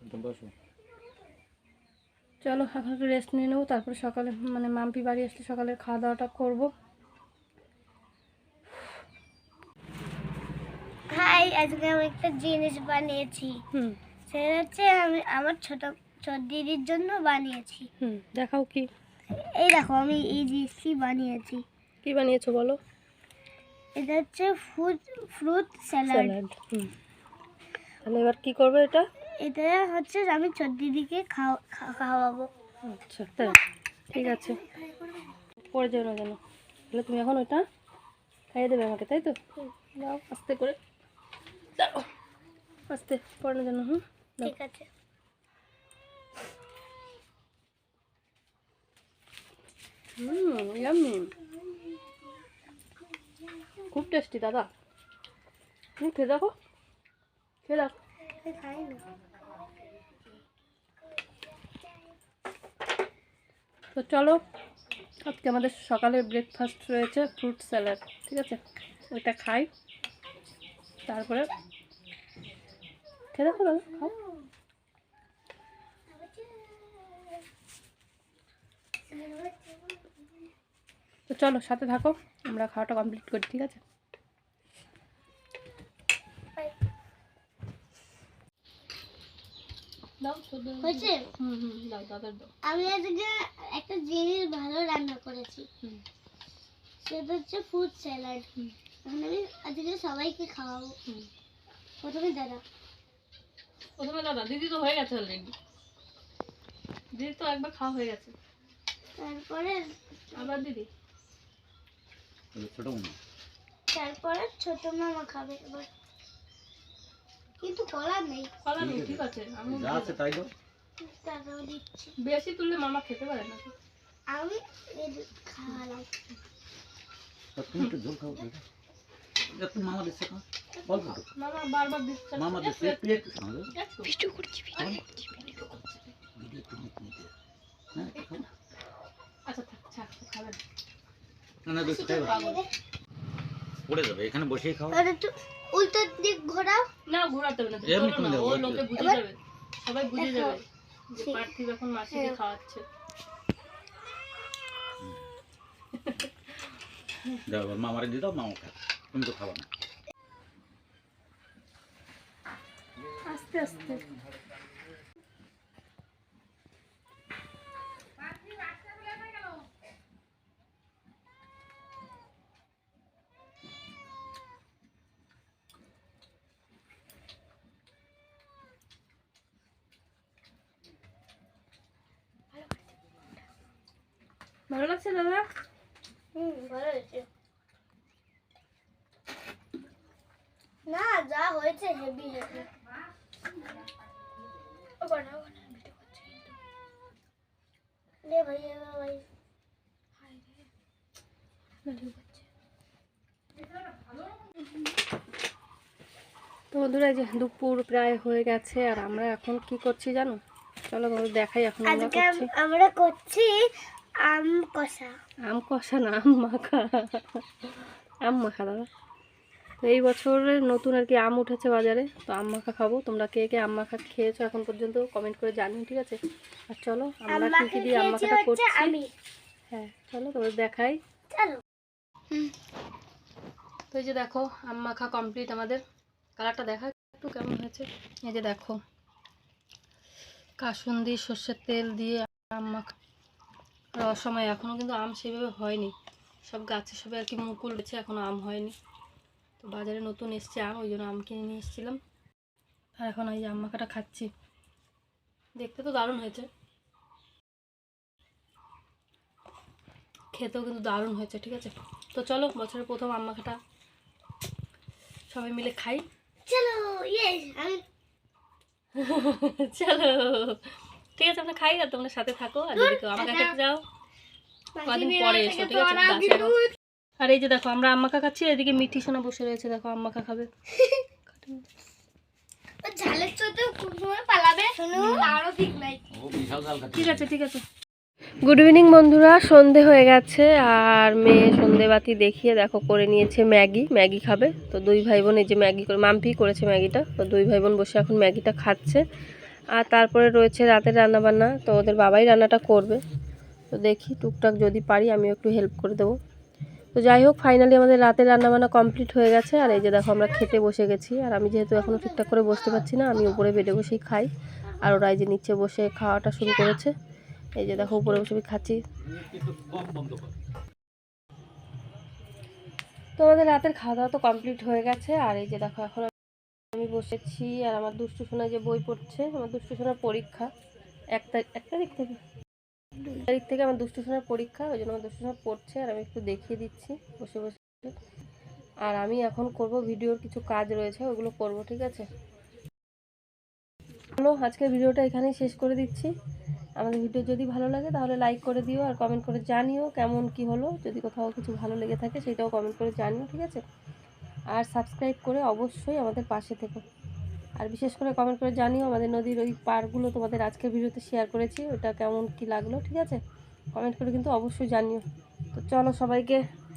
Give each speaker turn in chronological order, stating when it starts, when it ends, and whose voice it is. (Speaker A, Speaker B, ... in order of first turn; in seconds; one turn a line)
Speaker A: 2.4-6.7
Speaker B: 11.1-13.6
Speaker B: 14.3-17.9
Speaker A: 18.0-18.9
Speaker B: 19.6-21.6
Speaker A: 22.0-22.8
Speaker B: 23.9-26.4
Speaker A: 26.1-26.9
Speaker A: 28.0-29.0
Speaker B: 29.4-32.5
Speaker A: 32.8-33.6
Speaker A: 34.1-34.6
Speaker B: 34.1-35.3
Speaker A: 35.7-36.4
Speaker A: 36.9-37.6
Speaker A: 38.5-39.3
Speaker A: 39.9-40.8
Speaker A: 41.8-42.0
Speaker A: 42.9-44.5
Speaker B: 44.4-44.9
Speaker A: 50.2-51.3
Speaker A: 53.9-54.7
Speaker A: 56.0-56.5
Speaker A: 57.6-57.9
Speaker B: 58.4-59.0
Speaker A: 63.9-64.4
Speaker A: 65.2-69.7
Speaker A: 71.1-71.5
Speaker A: 73.3-74.1
Speaker B: 73.7-74.5
Speaker B: 76.1-77.4
Speaker B: 79.1-80.2
Speaker A: 81.3-83.8
Speaker A: 90.2-92.5
Speaker B: 90.8-91.2
Speaker B: 92.6-95.7
Speaker B: 97.0-98.5
Speaker B: 99.0-100.9
Speaker B: 102.0-102.6
Speaker A: 104.0-105.5
Speaker A: 107.1-108.3
Speaker B: 109.2-110.6
Speaker A: 110.3-110.9
Speaker C: 112.5-113.2
Speaker B: 113.9-115.9
Speaker B: 117.6-118.5
Speaker A: 118.6-120.2
Speaker C: 118.8-120.5
Speaker B: 121.0-122.1
Speaker A: 122.2-123.7
Speaker B: 124.3-126.1
Speaker C: 127.5-128.6
Speaker C: 129.4-131.2
Speaker A: 130.9-133.2
Speaker C: 132.3-133.7
Speaker A: 133.7-134.8
Speaker C: 134.7-137.3
Speaker C: 137.9-138.4
Speaker A: 138.1-138.5
Speaker A: 139.4-140.6
Speaker C: 141.7-142.4
Speaker B: 141.8-142.7
Speaker A: 142.2-142.6
Speaker C: 143.9-145.0
Speaker B: 144.9-146.9
Speaker A: 147.1-152.8
Speaker C: 147.8-148.9
Speaker B: 150.1-150.6
Speaker A: 155.9-156.3
Speaker C: 157.5-159.7
Speaker A: 163.2-164.0
Speaker B: 182.5-182.8
Speaker A: 184.7-185.4
Speaker B: 186.3-187.3
Speaker B: 190.8-192.7
Speaker A: 195.0-196.3
Speaker B: 198.2-199.2
Speaker A: 201.8-202.4
Speaker A: 206.7-212.5
Speaker B: 211.8-213.5
Speaker B: 214.3-215.2
Speaker A: 215.5-217.4
Speaker A: 218.2-218.9
Speaker A: 219.8-226.2
Speaker A: 226.7-228.9
Speaker B: 227.3-229.1
Speaker A: 229.7-231.0
Speaker B: 231.3-231.6
Speaker A: 233.9-235.8
Speaker A: 236.4-238.8
Speaker A: 240.6-242.9
Speaker A: 243.9-245.9
Speaker A: 246.4-248.7
Speaker A: 249.6-252.0
Speaker A: 253.0-254.3
Speaker A: 255.6-256.5
Speaker A: 260.3-263.6
Speaker A: 265.3-266.0
Speaker B: 266.4-267.8
Speaker A: 268.9-270.6
Speaker A: 271.1-273.8
Speaker B: 272.7-273.5
Speaker B: 274.8-276.8
Speaker A: 274.8-276.6
Speaker A: 277.2-280.5
Speaker A: 281.3-281.6
Speaker B: 282.8-286.0
Speaker A: 284.9-285.4
Speaker C: 286.1-287.3
Speaker A: 286.9-287.6
Speaker A: 288.4-299.0
Speaker A: 299.7-303.0
Speaker A: 303.7-306.1
Speaker A: 306.9-314.3
Speaker B: 309.8-310.5
Speaker B: 312.0-312.5
Speaker A: 314.8-316.9
Speaker A: 317.6-318.8
Speaker B: 317.9-318.2
Speaker C: 319.1-320.3
Speaker A: 323.1-326.1
Speaker A: 326.7-330.5
Speaker A: 331.1-332.2
Speaker A: 333.0-337.9
Speaker A: 338.8-342.1
Speaker A: 344.2-346.1
Speaker A: 346.8-353.6
Speaker A: 354.5-356.8
Speaker A: 357.6-363.2
Speaker A: 363.7-366.4